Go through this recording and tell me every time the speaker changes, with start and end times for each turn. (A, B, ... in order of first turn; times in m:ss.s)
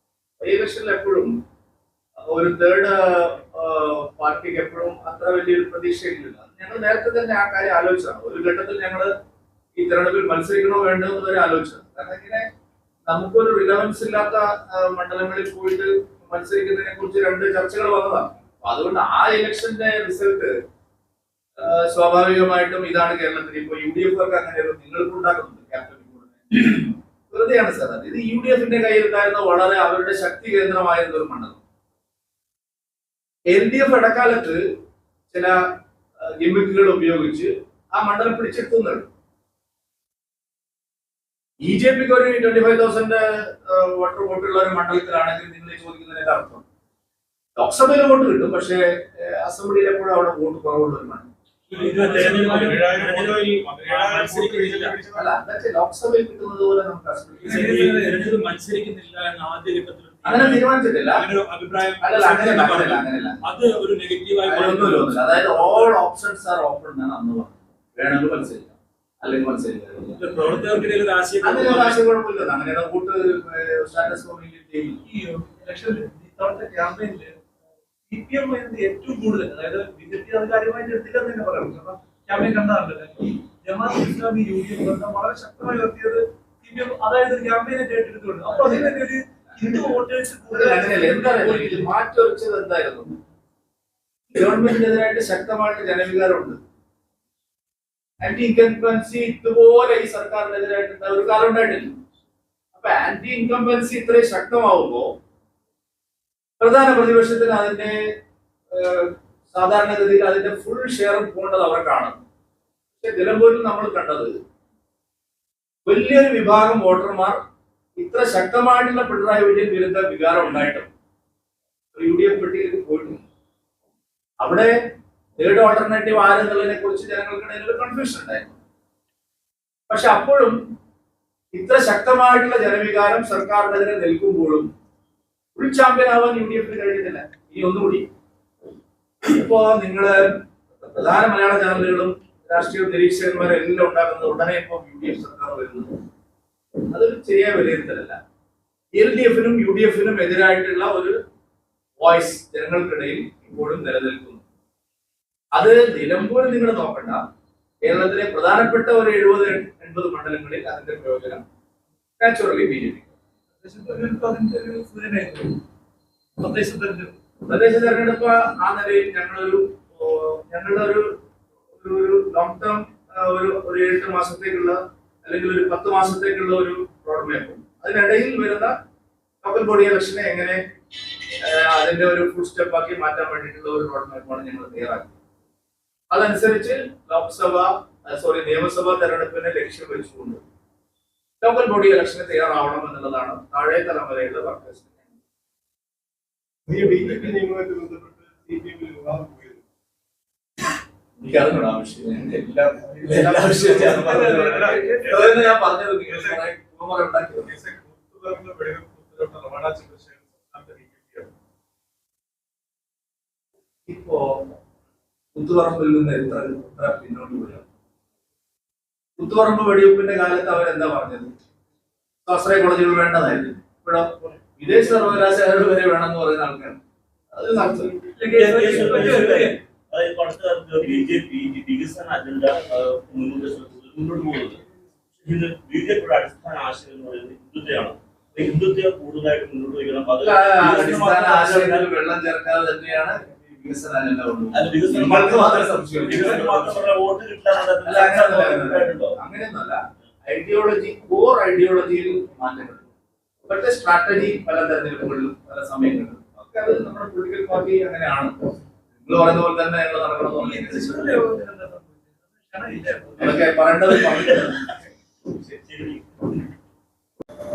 0:00.4-0:01.3 A
0:02.2-0:09.1 A
0:09.7-0:12.4 A
0:13.1-0:20.5 A
0:21.6-0:31.6 A
0:33.5-0:34.6 A
0:35.3-0:35.6 A
0:36.3-0:39.1 A
0:41.6-0:46.6 A
0:47.6-0:51.3 A
0:51.7-0:55.0 B
0:51.9-0:53.3 C
0:52.1-0:53.2 D
0:52.7-0:54.5 E
0:53.9-0:54.3 D
0:55.1-0:57.6 A
0:57.4-0:58.3 C
0:57.4-1:05.3 B
1:00.2-1:01.2 A
1:02.0-1:03.4 A
1:04.4-1:10.2 A
1:05.5-1:05.8 C
1:10.2-1:12.0 B
1:11.4-1:15.0 A
1:15.0-1:17.4 C
1:18.1-1:31.9 C
1:28.5-1:33.1 A
1:34.3-1:36.6 A
1:38.2-1:42.0 A
1:42.7-1:45.1 A
1:46.6-1:47.9 A
1:48.7-1:52.2 A
1:53.0-1:54.3 A
1:55.8-1:57.4 A
1:58.0-2:00.9 A
2:01.9-2:03.2 A
2:04.4-2:04.7 A
2:05.4-2:08.6 A
2:09.9-2:10.5 A
2:11.5-2:14.7 A
2:15.5-2:18.0 A
2:19.2-2:20.2 A
2:20.8-2:25.9 A
2:26.9-2:28.2 A
2:28.9-2:31.1 A
2:32.0-2:34.4 A
2:35.5-2:37.2 A
2:37.8-2:41.4 A
2:42.2-2:43.1 A
2:43.6-2:45.6 C
2:46.4-2:47.1 C
2:47.5-2:51.1 A
2:51.8-2:58.7 A
2:59.4-3:00.6 A
3:01.4-3:05.1 A
3:06.1-3:10.4 A
3:11.4-3:15.1 A
3:16.7-3:17.4 A
3:17.6-3:18.6 C
3:18.8-3:19.4 E
3:19.1-3:19.6 C
3:21.2-3:27.5 A
3:23.6-3:25.3 C
3:27.6-3:31.2 E
3:30.1-3:31.1 C
3:33.9-3:34.4 A
3:35.3-3:37.6 A
3:39.2-3:41.3 A
3:42.2-3:46.8 A
3:47.3-3:48.0 A
3:48.2-3:49.6 C
3:48.2-3:54.6 D
3:55.2-4:01.9 D
4:00.2-4:06.8 A
4:04.5-4:09.2 D
4:07.8-4:12.8 A
4:13.5-4:18.3 A
4:19.0-4:21.2 A
4:20.3-4:23.4 C
4:23.2-4:24.7 A
4:25.6-4:26.3 D